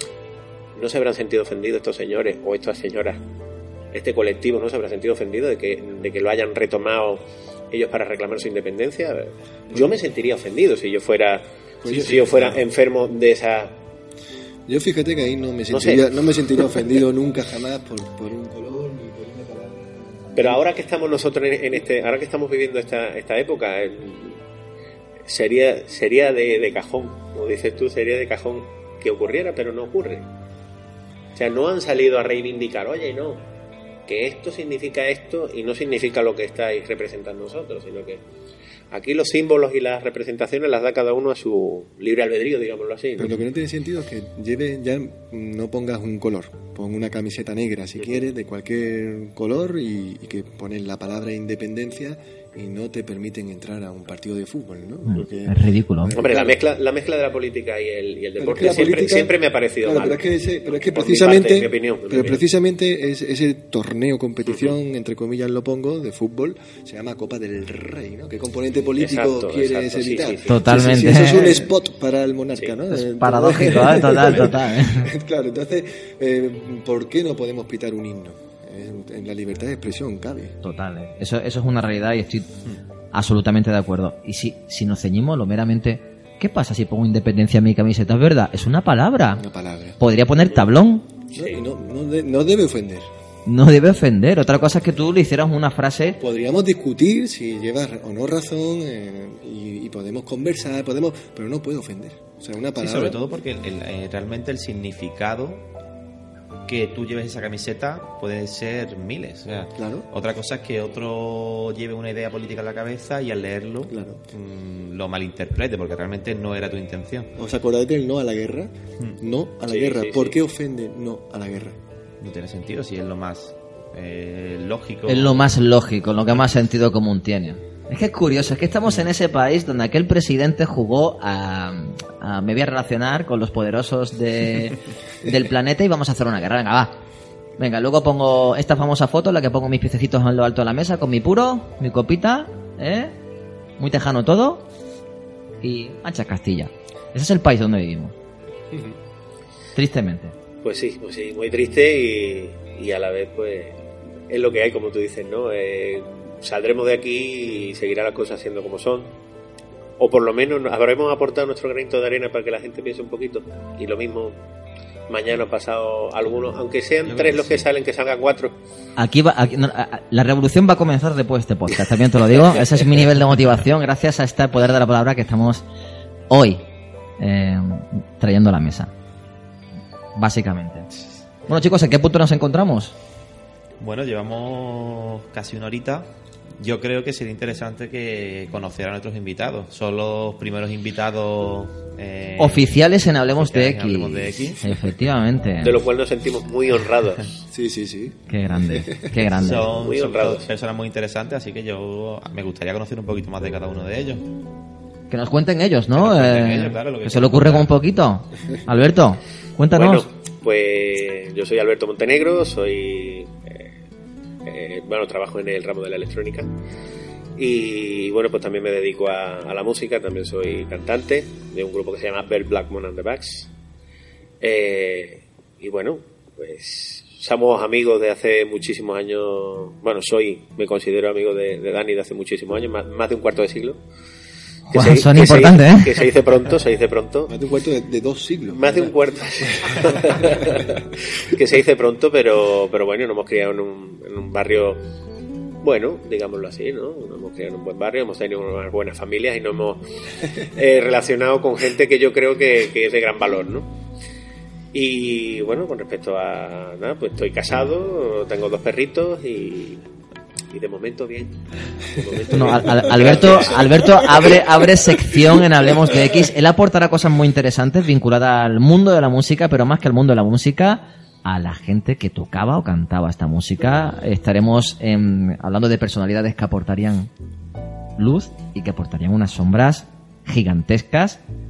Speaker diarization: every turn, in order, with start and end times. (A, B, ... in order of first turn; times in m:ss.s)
0:00.8-0:03.2 A
0:03.9-0:13.8 A
0:11.8-0:12.6 B
0:14.7-0:20.6 B
0:15.7-0:16.9 A
0:20.4-0:24.4 A
0:25.3-0:30.3 A
0:31.4-0:33.5 A
0:34.1-0:38.2 A
0:38.9-0:43.4 A
0:43.2-0:56.6 B
0:55.1-0:56.2 C
0:56.2-1:02.4 A
0:58.4-1:20.6 B
1:04.5-1:04.7 A
1:09.0-1:10.6 A
1:10.5-1:11.7 C
1:12.9-1:15.1 C
1:20.6-1:22.5 C
1:23.1-1:29.4 C
1:29.3-1:30.0 B
1:30.0-1:31.1 C
1:31.3-1:31.6 A
1:31.3-1:33.1 B
1:33.5-1:36.2 C
1:36.2-1:43.2 B
1:42.8-1:45.7 D
1:46.7-1:57.3 D
1:49.8-1:50.1 B
1:53.9-1:54.3 B
1:57.4-2:01.8 B
1:59.7-2:00.4 A
2:02.2-2:05.5 D
2:05.1-2:17.0 C
2:17.6-2:23.2 C
2:23.8-2:24.7 C
2:25.6-2:28.1 C
2:28.7-2:29.0 B
2:29.8-2:30.3 C
2:30.6-2:39.2 A
2:40.0-2:44.4 A
2:45.1-2:48.6 A
2:47.0-2:47.7 D
2:49.0-2:55.6 C
2:56.3-2:56.6 C
2:57.2-2:58.9 C
3:00.2-3:00.9 C
3:01.5-3:02.9 C
3:03.8-3:12.7 D
3:12.4-3:15.8 C
3:13.4-3:14.8 D
3:15.6-3:17.4 A
3:17.5-3:19.3 B
3:18.3-3:19.7 C
3:19.3-3:24.3 D
3:19.8-3:20.5 A
3:25.1-3:30.1 C
3:25.9-3:27.7 D
3:29.7-3:33.7 A
3:34.4-3:36.5 A
3:37.4-3:43.5 A
3:44.4-3:53.8 A
3:54.7-3:56.0 C
3:54.7-3:57.3 A
3:57.3-3:58.9 B
3:58.5-4:04.8 A
3:59.6-4:00.7 B
4:05.6-4:13.7 A
4:14.7-4:19.8 A
4:20.5-4:24.5 A
4:22.3-4:37.1 C
4:38.0-4:41.2 C